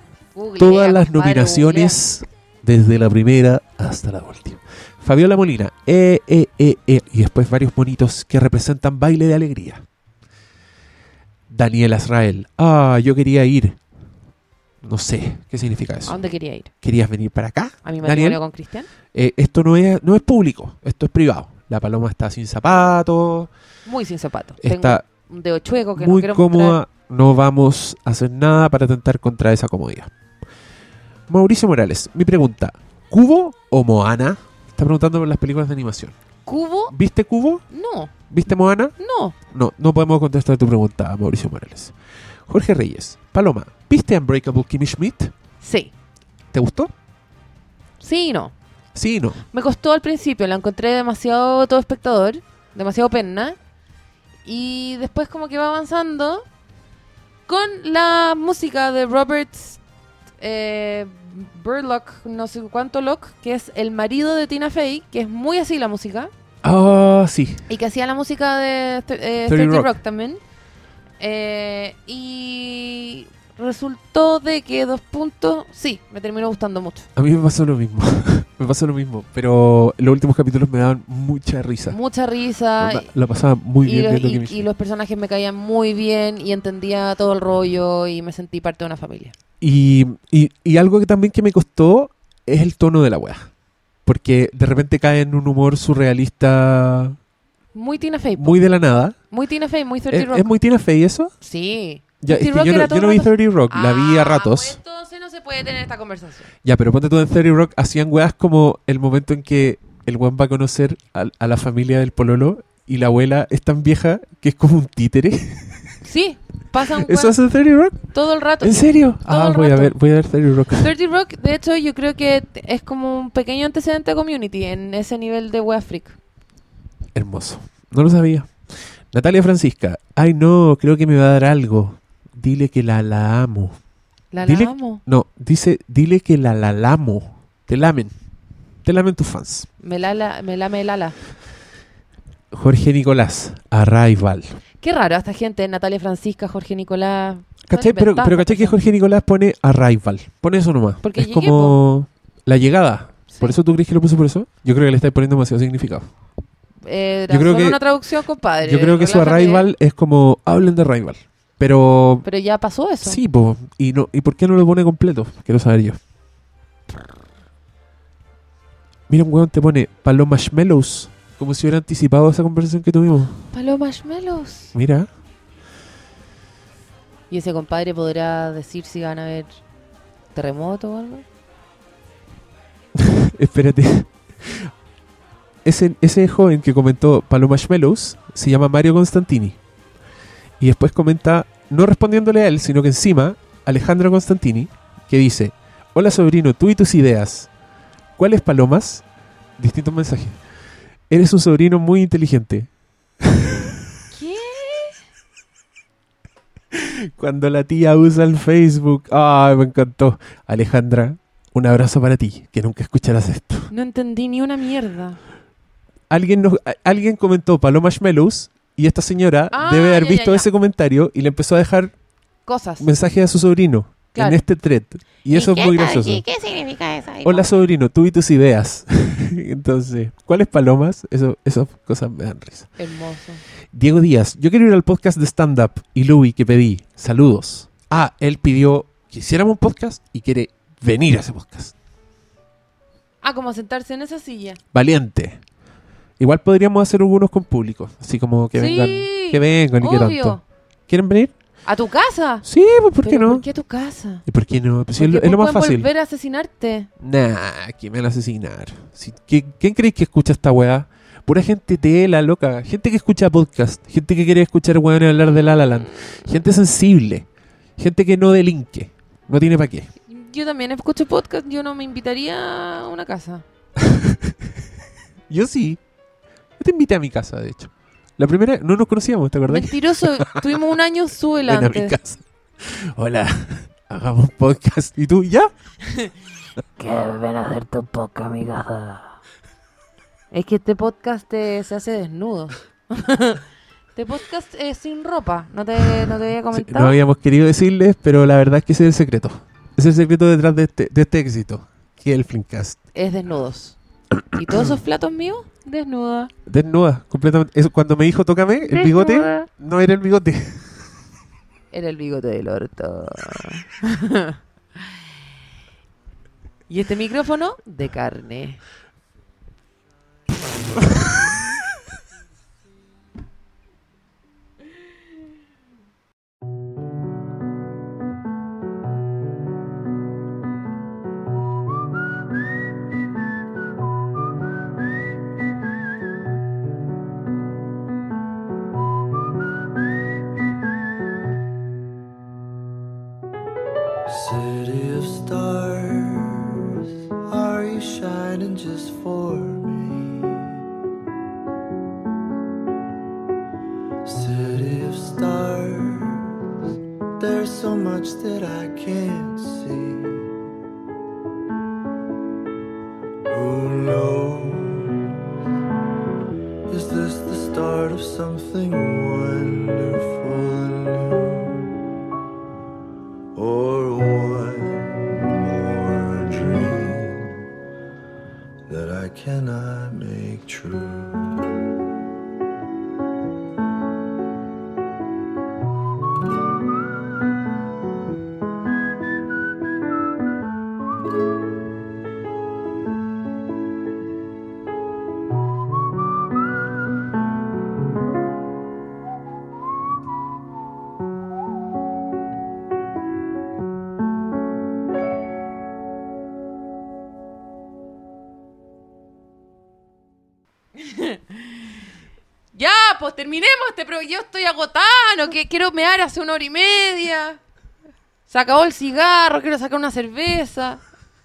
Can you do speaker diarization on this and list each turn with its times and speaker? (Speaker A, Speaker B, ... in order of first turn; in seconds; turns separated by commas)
Speaker A: 0.3-2.0, Speaker B: 0.6-9.8, Speaker B: 11.5-13.8, Speaker B: 14.8-16.2, Speaker A: 16.1-16.7, Speaker B: 16.8-18.4, Speaker A: 17.8-18.9, Speaker B: 19.1-23.5, Speaker A: 23.9-26.8, Speaker B: 24.6-25.0, Speaker B: 25.9-30.1, Speaker B: 31.3-36.1, Speaker A: 36.5-36.9, Speaker B: 36.9-37.6, Speaker A: 37.7-38.1, Speaker B: 38.3-41.9, Speaker A: 39.0-39.4, Speaker B: 42.5-45.3, Speaker A: 45.6-45.9, Speaker B: 46.5-46.9, Speaker A: 48.0-48.5, Speaker B: 48.9-49.4, Speaker A: 49.5-53.5, Speaker A: 54.5-56.4, Speaker A: 57.5-59.8, Speaker A: 60.4-66.3, Speaker B: 66.6-67.6, Speaker A: 67.7-70.4, Speaker B: 69.5-69.9, Speaker A: 71.2-77.1, Speaker B: 77.2-82.0, Speaker A: 81.9-83.1, Speaker B: 82.8-84.7, Speaker A: 83.8-89.3, Speaker B: 89.6-93.5, Speaker B: 94.0-97.2, Speaker A: 97.7-98.6, Speaker B: 98.4-99.2, Speaker A: 99.3-100.5, Speaker B: 100.1-101.3, Speaker A: 101.4-106.5, Speaker B: 102.2-104.8, Speaker B: 106.6-116.0, Speaker A: 116.0-117.4, Speaker B: 117.0-118.1, Speaker A: 118.1-119.9, Speaker B: 118.6-120.9, Speaker A: 120.8-126.2, Speaker B: 127.1-128.5, Speaker B: 129.1-133.8, Speaker A: 134.3-135.0, Speaker B: 134.4-138.1, Speaker B: 138.8-139.7, Speaker A: 139.8-141.2, Speaker B: 142.5-144.5, Speaker A: 144.8-148.8, Speaker B: 147.7-156.1, Speaker A: 151.0-151.8, Speaker A: 153.3-153.6, Speaker A: 156.8-159.7, Speaker B: 157.3-157.8, Speaker B: 158.6-162.2, Speaker A: 162.2-163.2, Speaker B: 163.0-166.0, Speaker B: 169.1-173.4, Speaker A: 173.5-174.7, Speaker B: 174.7-175.1, Speaker A: 177.3-179.6, Speaker A: 180.3-181.2, Speaker B: 182.9-184.7, Speaker B: 185.6-189.6, Speaker B: 190.6-197.5, Speaker B: 198.2-199.0, Speaker B: 199.6-200.4, Speaker B: 201.1-202.7, Speaker B: 203.2-203.8, Speaker A: 204.1-205.0, Speaker B: 206.7-213.7, Speaker A: 213.7-215.2, Speaker B: 216.1-221.9, Speaker A: 219.5-220.5, Speaker A: 222.4-222.9, Speaker B: 222.8-226.2, Speaker A: 224.1-224.4, Speaker A: 225.3-227.5, Speaker B: 227.2-232.7, Speaker A: 232.8-233.4, Speaker B: 233.7-241.7, Speaker A: 243.2-244.6, Speaker B: 244.7-245.4, Speaker B: 246.2-251.3, Speaker A: 248.5-250.4, Speaker A: 251.6-252.4, Speaker B: 252.4-253.4, Speaker A: 253.0-254.2, Speaker B: 254.2-255.9, Speaker A: 255.0-256.9, Speaker B: 257.0-269.9, Speaker A: 270.1-273.4, Speaker B: 273.8-274.4, Speaker B: 275.3-275.8, Speaker B: 276.6-280.6, Speaker A: 279.5-282.0, Speaker B: 281.4-285.5, Speaker A: 286.8-289.1, Speaker A: 290.3-293.4, Speaker A: 293.9-297.0, Speaker B: 296.5-302.8, Speaker A: 302.9-303.8, Speaker B: 304.3-304.8, Speaker A: 304.3-306.3, Speaker B: 306.4-310.8, Speaker A: 308.6-309.5, Speaker A: 311.7-314.4, Speaker A: 316.7-318.6, Speaker C: 344.1-350.6, Speaker C: 354.0-356.3, Speaker C: 357.2-360.3, Speaker C: 363.3-365.1, Speaker C: 366.7-371.7, Speaker C: 373.3-377.4, Speaker C: 378.7-381.5, Speaker A: 410.8-411.5, Speaker A: 412.5-417.4, Speaker A: 418.3-420.8